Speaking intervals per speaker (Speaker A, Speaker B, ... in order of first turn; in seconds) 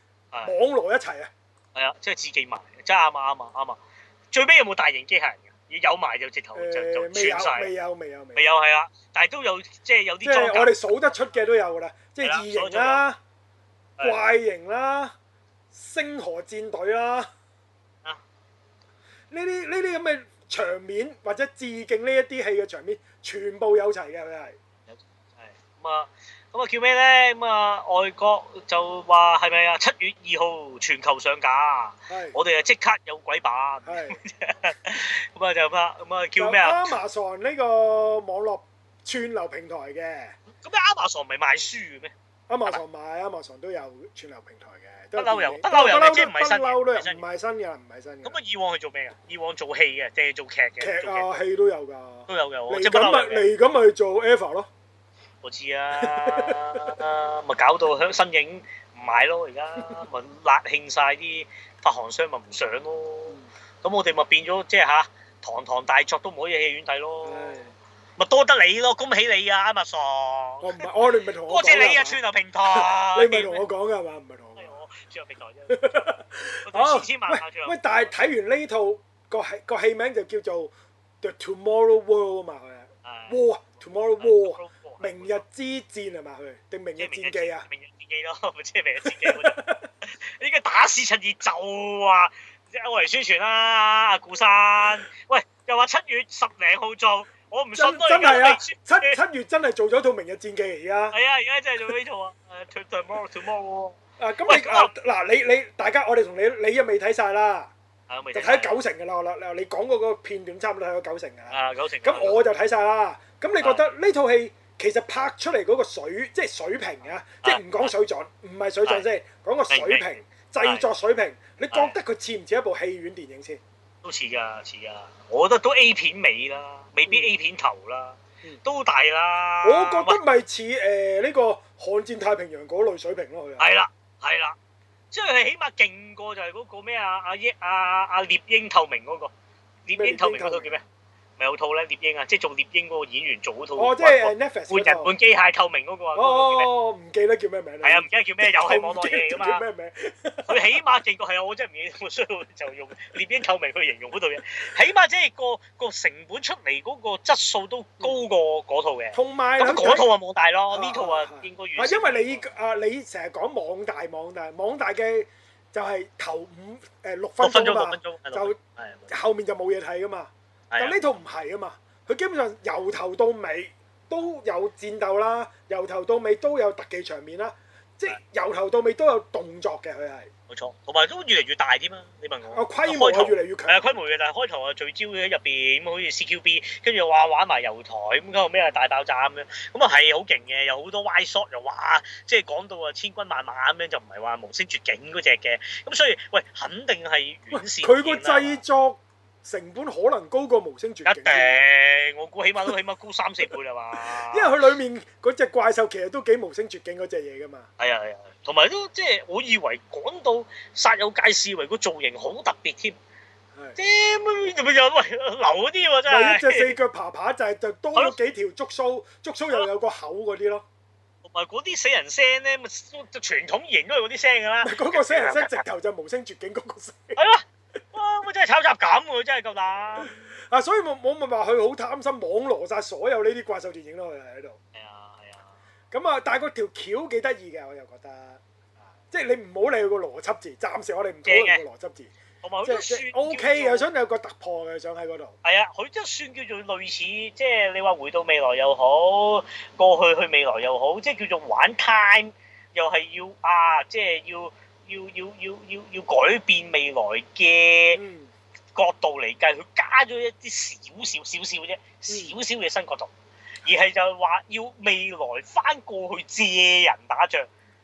Speaker A: 0.5-1.3, 6.5-8.4, 10.2-13.2, 14.0-15.1, 15.7-17.3, 19.3-24.6, 32.1-32.4, 33.9-34.2, 36.4-40.4, 42.5-48.4, 50.8-54.7, 56.0-56.9, 67.2-67.7, 70.6-74.7, 75.7-87.7, 89.0-89.9, 97.8-101.2, 104.2-107.7, 108.3-123.6, 129.6-133.7, 139.9-140.7, 143.8-145.1, 146.2-150.8, 159.1-160.1, 160.7-168.6, 169.1-180.3, 182.5-184.0, 197.5-201.7, 203.9-207.7, 216.1-220.7, 224.6-227.2, 230.0-234.6, 235.9-238.4, 239.1-242.1, 242.6-245.3, 257.9-258.3, 262.1-262.3
Speaker B: 1.7-3.8, 4.3-7.7, 8.3-10.8, 12.2-13.0, 24.9-37.0, 40.6-42.1, 45.2-47.2, 48.2-51.3, 52.3-53.5, 55.4-67.6, 68.2-70.9, 71.5-73.6, 74.6-78.1, 83.0-83.4, 84.2-85.4, 87.0-99.2, 101.1-104.9, 108.1-108.8, 111.5-112.5, 117.4-117.9, 119.7-120.1, 120.6-120.9, 124.0-130.2, 133.6-134.6, 135.1-139.3, 139.8-140.8, 141.4-146.7, 147.8-149.6, 150.5-162.5, 167.4-169.1, 170.7-171.0, 180.5-198.6, 201.1-204.5, 207.8-212.9, 213.8-216.8, 221.2-225.6, 227.2-230.1, 234.8-235.5, 241.2-241.6, 242.4-243.9, 245.4-258.0, 258.8-263.1, 263.6-267.5